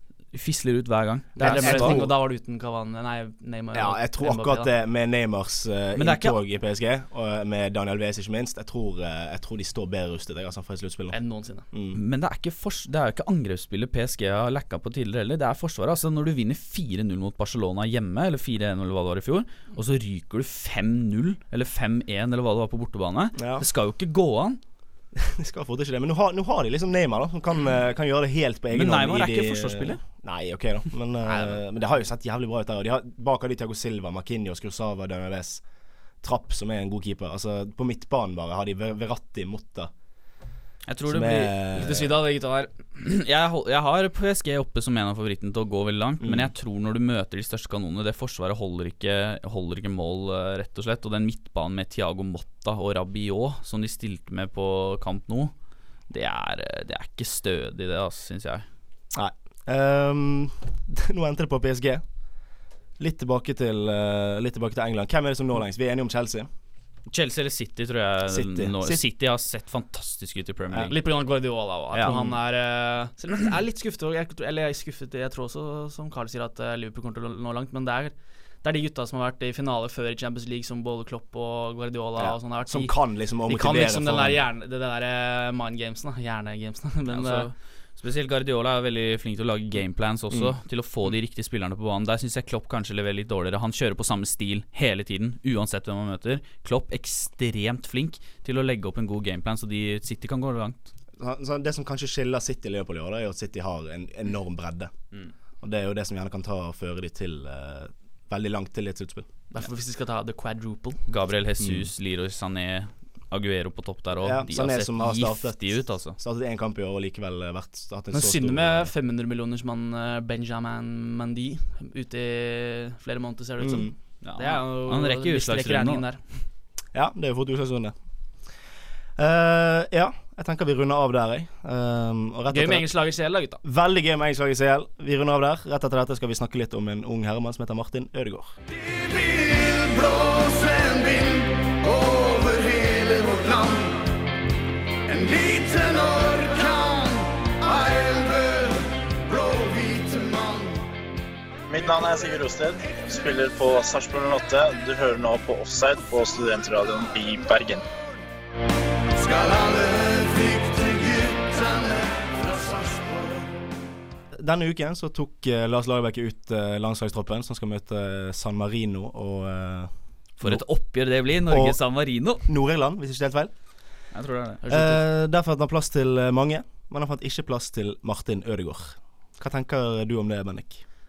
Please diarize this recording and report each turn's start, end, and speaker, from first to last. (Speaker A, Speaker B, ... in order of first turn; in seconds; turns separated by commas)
Speaker A: 0.3-2.0, Speaker B: 1.4-2.1, Speaker C: 1.4-4.7, Speaker B: 3.7-11.2, Speaker A: 6.0-6.4, Speaker C: 11.1-11.7, Speaker B: 11.7-12.0, Speaker A: 11.9-24.6, Speaker B: 23.4-23.6, Speaker B: 25.2-39.9, Speaker A: 28.7-30.0, Speaker A: 31.3-31.6, Speaker A: 40.9-41.5, Speaker B: 41.1-42.1, Speaker C: 41.7-42.8, Speaker A: 43.0-55.5, Speaker B: 46.2-46.5, Speaker A: 56.1-58.6, Speaker B: 59.1-62.2, Speaker B: 63.0-66.5, Speaker A: 67.1-71.0, Speaker B: 68.3-69.0, Speaker C: 70.9-87.5, Speaker B: 72.0-72.4, Speaker B: 82.2-84.5, Speaker A: 87.1-100.8, Speaker B: 101.2-104.9, Speaker B: 105.6-109.2, Speaker C: 109.5-111.0, Speaker A: 111.1-116.2, Speaker B: 111.6-111.9, Speaker B: 114.2-118.9, Speaker C: 118.1-126.4, Speaker B: 123.6-123.9, Speaker A: 124.2-126.1, Speaker B: 126.9-128.6, Speaker B: 129.2-132.9, Speaker C: 132.5-133.6, Speaker B: 133.6-138.5, Speaker D: 140.0-141.2, Speaker D: 142.8-143.6, Speaker D: 145.2-146.8, Speaker E: 151.7-157.8, Speaker B: 164.3-174.1, Speaker A: 170.4-172.4, Speaker A: 174.1-174.6, Speaker C: 174.6-175.0, Speaker B: 174.7-180.8